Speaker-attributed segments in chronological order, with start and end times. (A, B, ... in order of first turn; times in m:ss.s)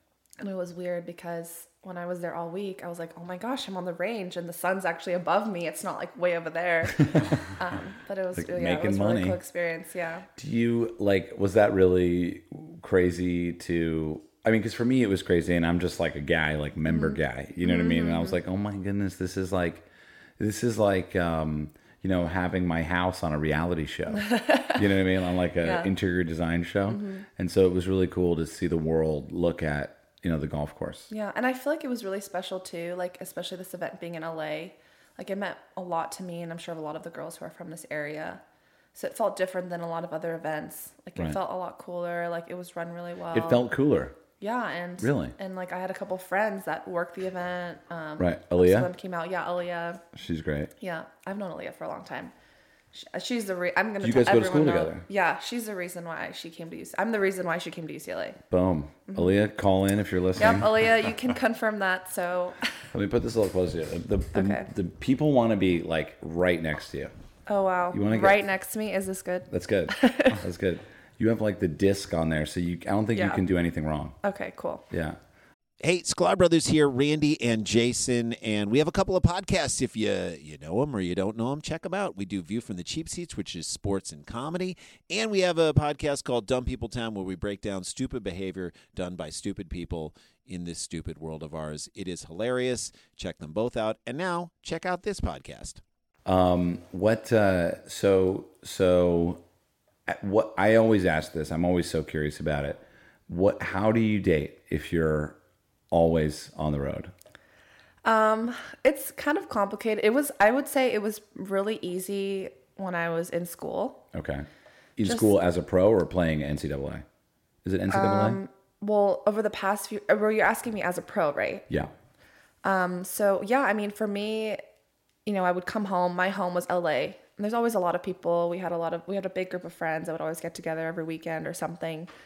0:00.4-0:10.3 A
0:08.3-0:09.4 B
0:10.4-0:19.8 B
0:16.9-0:18.4 A
0:20.4-0:31.1 B
0:24.2-0:24.8 A
0:25.6-0:25.9 A
0:26.9-0:27.2 A
0:31.1-0:38.4 A
0:38.9-0:43.6 A
0:43.3-0:44.2 B
0:44.4-0:50.0 A
0:45.0-0:45.3 B
0:48.2-0:48.9 B
0:50.1-0:50.7 B
0:50.8-0:52.3 A
0:52.9-0:58.4 A
0:54.0-0:55.0 B
0:58.5-1:00.8 B
0:59.1-0:59.3 A
1:00.4-1:02.7 A
1:02.9-1:07.1 B
1:04.3-1:04.7 A
1:07.5-1:10.4 A
1:07.9-1:08.4 B
1:09.5-1:14.2 B
1:13.1-1:13.4 A
1:14.2-1:14.8 A
1:14.9-1:15.2 B
1:15.8-1:35.8 C
1:36.2-1:39.4 B
1:40.0-1:45.4 B
1:45.9-1:47.1 B
1:48.0-1:54.0 A
1:54.1-1:57.0 B
1:55.0-1:55.3 A
1:57.6-1:58.4 B
1:57.9-2:01.7 A
2:02.6-2:04.6 A
2:05.2-2:12.1 A